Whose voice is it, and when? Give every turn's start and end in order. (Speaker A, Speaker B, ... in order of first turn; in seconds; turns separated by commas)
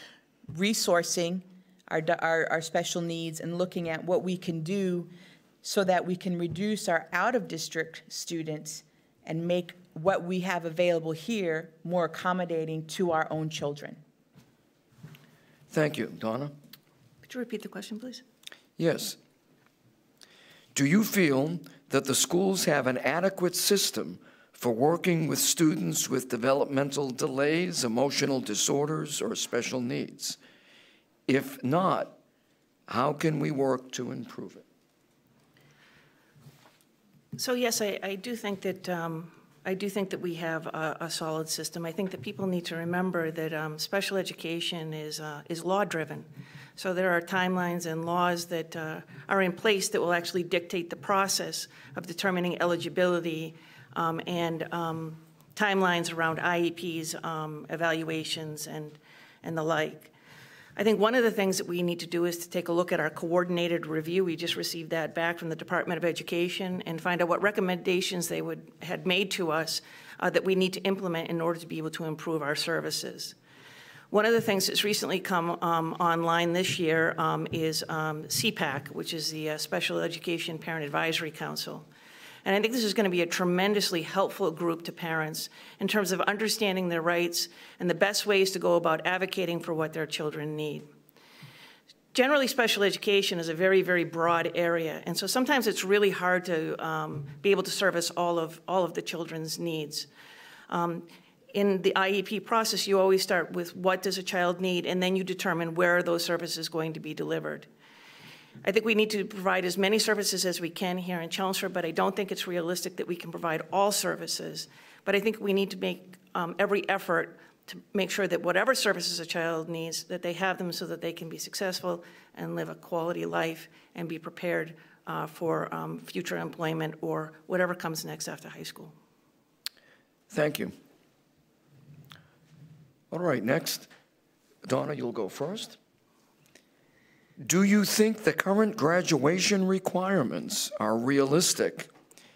Speaker A: 0.5-5.1, Speaker A: 5.6-14.0, Speaker B: 15.7-16.5, Speaker C: 17.2-18.2, Speaker B: 18.8-19.2, Speaker B: 20.7-30.4, Speaker B: 31.3-32.1, Speaker B: 32.9-34.6, Speaker C: 37.4-46.2, Speaker C: 46.8-60.1, Speaker C: 60.8-73.3, Speaker C: 74.1-81.8, Speaker C: 82.4-90.8, Speaker C: 92.1-100.1, Speaker C: 100.7-107.7, Speaker C: 108.6-128.9, Speaker B: 130.3-130.7, Speaker B: 133.1-133.9, Speaker B: 134.6-135.8, Speaker B: 137.4-141.9